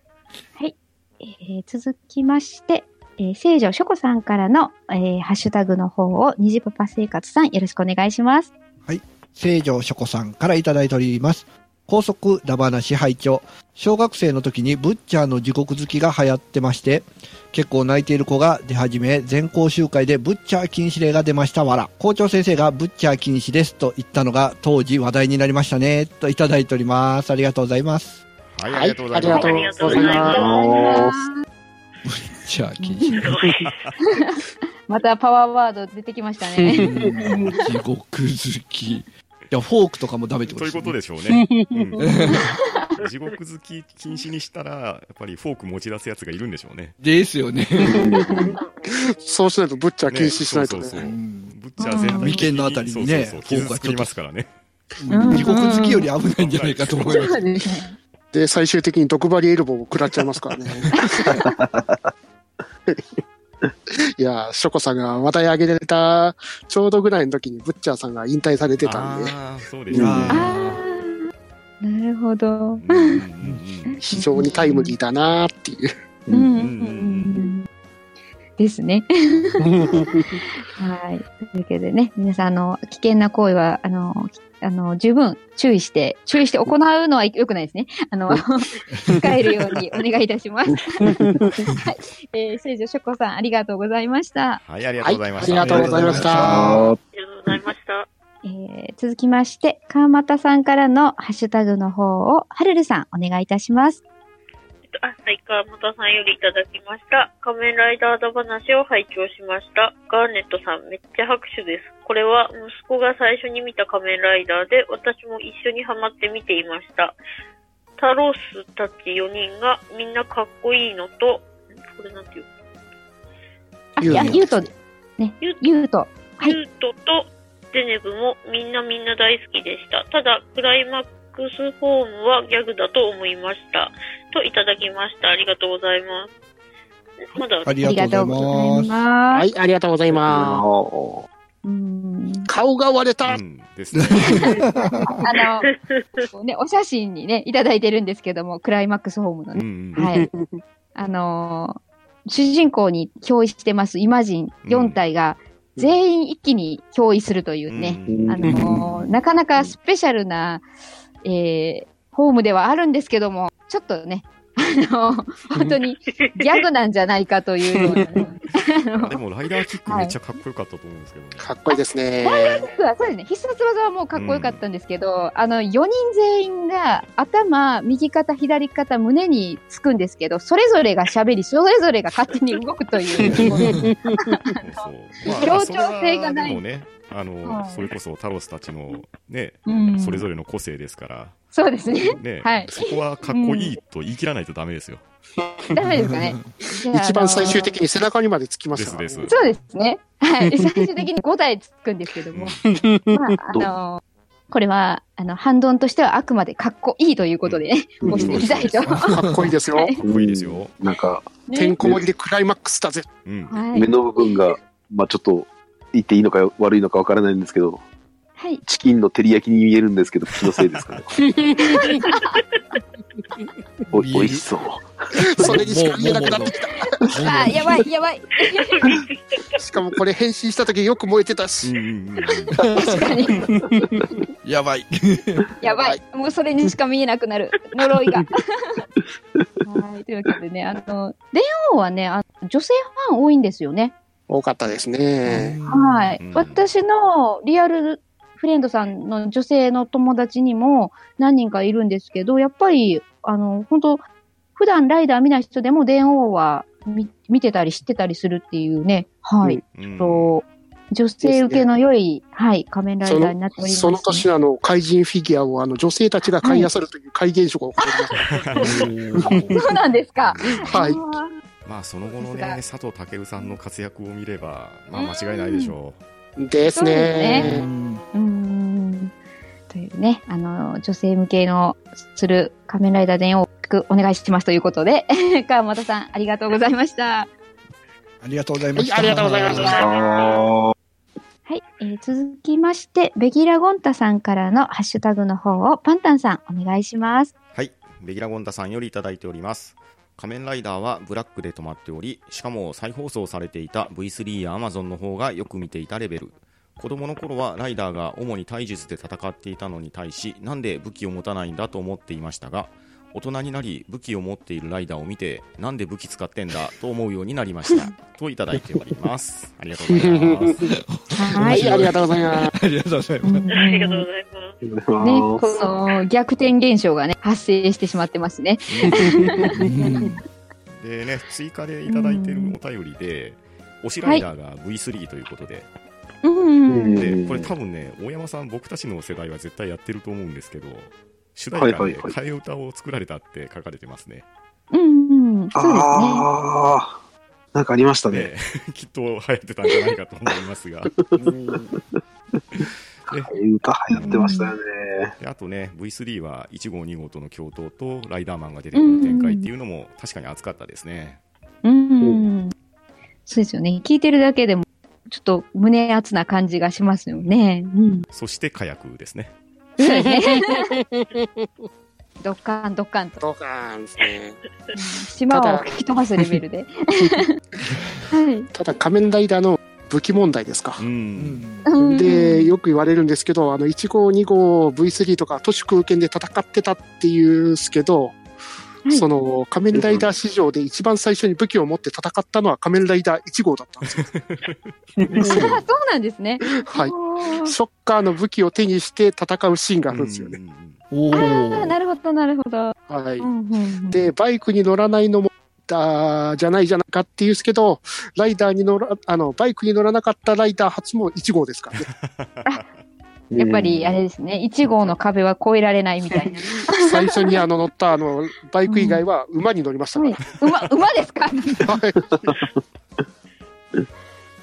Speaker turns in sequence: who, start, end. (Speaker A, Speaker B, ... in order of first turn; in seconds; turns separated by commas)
Speaker A: 0.6-8.5, Speaker B: 8.8-28.2, Speaker C: 28.5-30.3, Speaker D: 28.7-30.4, Speaker E: 29.2-30.7, Speaker F: 29.9-31.2, Speaker A: 30.3-31.4, Speaker B: 32.0-33.3, Speaker A: 32.8-33.2, Speaker E: 33.3-33.6, Speaker C: 33.6-34.0, Speaker A: 34.0-37.0, Speaker D: 36.6-37.6, Speaker B: 36.7-41.0, Speaker C: 40.5-47.0, Speaker D: 41.3-42.0, Speaker B: 42.0-42.5, Speaker A: 42.3-42.8, Speaker B: 47.0-48.5, Speaker F: 47.9-48.5, Speaker D: 48.0-48.5, Speaker D: 49.2-51.0, Speaker C: 50.1-54.5, Speaker B: 51.0-54.1, Speaker A: 51.8-52.4, Speaker B: 55.0-57.5, Speaker A: 55.1-56.1, Speaker C: 56.3-57.3, Speaker A: 57.0-58.0, Speaker D: 58.3-61.3, Speaker A: 61.0-61.5, Speaker F: 61.3-62.1, Speaker D: 64.2-69.4, Speaker C: 68.8-70.5, Speaker F: 69.9-70.3, Speaker B: 69.9-70.8, Speaker A: 70.3-71.3, Speaker A: 71.8-73.2, Speaker C: 72.8-74.0, Speaker D: 74.0-75.9, Speaker A: 74.1-75.0, Speaker F: 76.3-76.6, Speaker A: 76.3-77.7, Speaker C: 76.6-77.5, Speaker A: 78.6-79.7, Speaker C: 79.3-79.8, Speaker D: 79.7-80.4, Speaker A: 80.8-91.1, Speaker A: 91.8-94.6, Speaker C: 94.6-96.5, Speaker D: 95.0-96.7, Speaker B: 95.6-96.9, Speaker F: 95.6-97.0, Speaker E: 97.1-98.1, Speaker A: 98.4-104.0, Speaker E: 104.9-117.2, Speaker E: 118.0-122.5, Speaker A: 124.0-126.6, Speaker D: 124.0-124.7, Speaker E: 126.4-136.3, Speaker E: 137.3-138.0, Speaker A: 137.3-139.5, Speaker B: 137.7-139.0, Speaker D: 139.3-140.6, Speaker F: 140.1-141.3, Speaker A: 141.6-142.5, Speaker D: 142.5-143.4, Speaker C: 143.2-144.7, Speaker B: 144.0-145.1, Speaker E: 144.2-144.6, Speaker A: 145.2-145.7, Speaker E: 145.7-146.3, Speaker A: 146.3-150.3, Speaker C: 149.5-150.0, Speaker D: 150.0-150.6, Speaker A: 150.9-160.6, Speaker C: 154.6-155.0, Speaker C: 157.7-158.6, Speaker F: 158.1-158.9, Speaker A: 161.2-169.2, Speaker C: 168.9-171.6, Speaker A: 169.9-170.2, Speaker D: 171.4-172.7, Speaker A: 171.7-184.6, Speaker C: 174.1-174.6, Speaker D: 183.3-184.4, Speaker C: 184.6-191.4, Speaker A: 185.4-186.6, Speaker A: 187.4-187.9, Speaker A: 189.7-190.3, Speaker A: 191.5-193.8, Speaker C: 192.0-195.1, Speaker D: 195.4-195.7, Speaker A: 195.7-197.7, Speaker B: 195.9-196.5, Speaker D: 196.8-199.3, Speaker C: 198.7-199.4, Speaker A: 199.3-202.6, Speaker D: 200.6-200.9, Speaker D: 202.7-203.6, Speaker A: 203.1-209.1, Speaker C: 207.4-209.1, Speaker F: 208.0-208.7, Speaker B: 208.9-209.5, Speaker D: 209.1-210.0, Speaker C: 210.0-210.8, Speaker F: 210.0-212.0, Speaker A: 211.5-211.8, Speaker D: 211.5-213.1, Speaker C: 213.2-213.7, Speaker A: 213.5-213.9, Speaker F: 213.7-217.8, Speaker A: 218.4-218.6, Speaker F: 218.7-221.1, Speaker D: 221.4-222.0, Speaker A: 221.7-222.4, Speaker F: 223.9-225.6, Speaker B: 223.9-224.5, Speaker B: 225.2-226.6, Speaker D: 225.3-226.9, Speaker A: 226.8-228.9, Speaker B: 227.1-227.8, Speaker E: 228.6-229.4, Speaker D: 229.6-231.7, Speaker C: 231.6-232.6, Speaker B: 232.6-233.2, Speaker A: 232.7-233.5, Speaker D: 233.5-234.2, Speaker B: 234.4-235.5, Speaker A: 235.6-238.8, Speaker D: 235.7-236.0, Speaker A: 239.6-243.9, Speaker D: 244.3-245.6, Speaker B: 245.2-246.2, Speaker A: 245.7-254.0, Speaker C: 246.2-246.7, Speaker A: 254.6-264.3, Speaker C: 259.7-260.4, Speaker D: 261.2-261.7, Speaker D: 263.0-268.7, Speaker A: 266.4-266.7, Speaker C: 268.2-268.9, Speaker B: 268.6-269.6, Speaker D: 269.2-269.6, Speaker A: 269.5-271.3, Speaker C: 270.2-270.7, Speaker D: 270.5-271.0, Speaker C: 271.6-276.0, Speaker A: 272.1-272.6, Speaker A: 274.9-275.8, Speaker D: 276.4-277.6, Speaker A: 276.6-277.5, Speaker B: 277.3-278.0, Speaker A: 278.1-279.1, Speaker A: 279.7-287.3, Speaker B: 288.2-289.8, Speaker D: 288.8-290.1, Speaker F: 289.5-290.7, Speaker A: 291.5-297.3, Speaker C: 297.5-320.7, Speaker D: 319.8-320.7, Speaker B: 320.9-323.4, Speaker A: 321.1-321.7, Speaker D: 321.4-322.6, Speaker A: 323.2-324.1, Speaker E: 323.5-324.6, Speaker F: 324.6-325.6, Speaker A: 325.0-329.5, Speaker C: 328.7-329.6, Speaker B: 329.6-330.2, Speaker C: 330.7-335.7, Speaker A: 331.9-332.6, Speaker A: 336.2-337.1, Speaker F: 336.7-337.5, Speaker C: 337.0-344.2, Speaker F: 341.5-342.2, Speaker A: 344.7-346.3, Speaker F: 345.5-347.0, Speaker F: 347.5-348.3, Speaker C: 348.1-350.9, Speaker F: 350.3-351.1, Speaker D: 351.2-351.7, Speaker F: 352.6-355.2, Speaker C: 353.9-354.3, Speaker A: 353.9-354.5, Speaker C: 355.2-361.2, Speaker A: 358.7-359.5, Speaker A: 361.6-362.5, Speaker A: 363.3-368.1, Speaker C: 368.1-369.3, Speaker A: 369.8-370.7, Speaker D: 369.8-371.5, Speaker A: 372.2-373.2, Speaker D: 373.2-374.4, Speaker A: 374.7-377.3, Speaker D: 375.3-375.7, Speaker A: 378.1-378.5, Speaker D: 378.5-380.8, Speaker C: 380.8-381.5, Speaker B: 381.2-381.7, Speaker A: 381.7-382.6, Speaker D: 381.8-388.2, Speaker D: 388.9-394.1, Speaker C: 389.7-390.1, Speaker C: 393.8-395.4, Speaker D: 395.0-395.6, Speaker A: 395.2-397.6, Speaker D: 396.6-400.4, Speaker C: 399.9-400.8, Speaker B: 400.9-401.8, Speaker A: 401.1-404.1, Speaker D: 402.9-403.3, Speaker D: 403.9-411.9, Speaker C: 411.8-412.7, Speaker F: 413.3-414.0, Speaker A: 413.4-417.4, Speaker D: 416.7-420.2, Speaker A: 418.6-419.0, Speaker A: 419.9-421.6, Speaker D: 421.6-422.4